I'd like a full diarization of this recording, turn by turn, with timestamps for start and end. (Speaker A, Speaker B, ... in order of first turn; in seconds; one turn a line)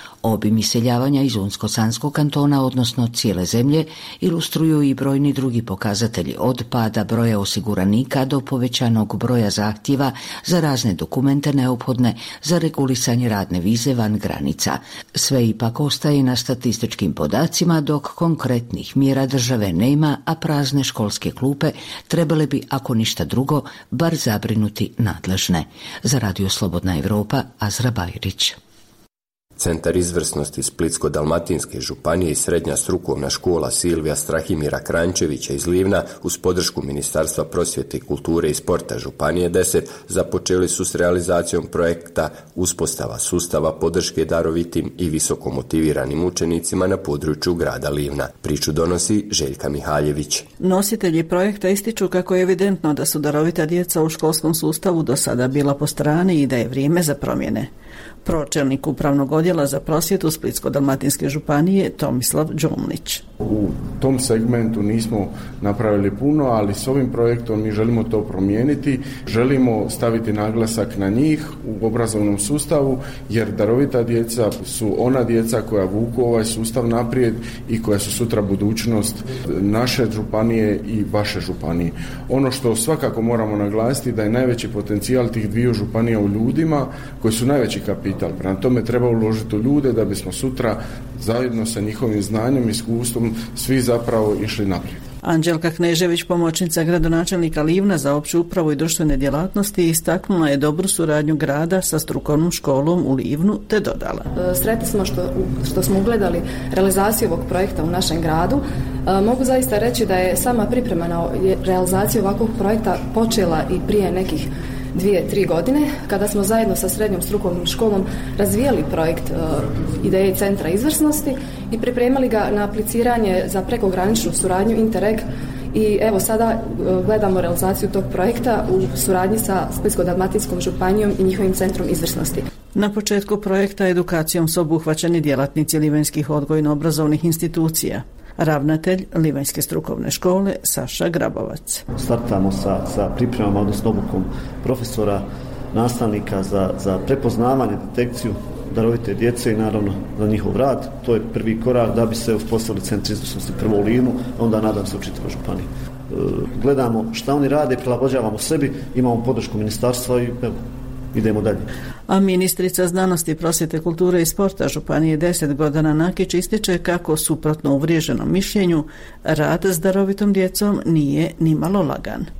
Speaker A: 0.2-28.6
Speaker B: 29.6-50.5
Speaker C: 50.6-57.7
Speaker C: 58.2-63.2
Speaker D: 63.4-95.0
Speaker C: 95.2-104.3
Speaker E: 104.4-132.4
Speaker C: 132.8-141.8
Speaker F: 141.9-160.6
Speaker F: 161.1-161.7
Speaker C: 162.1-172.3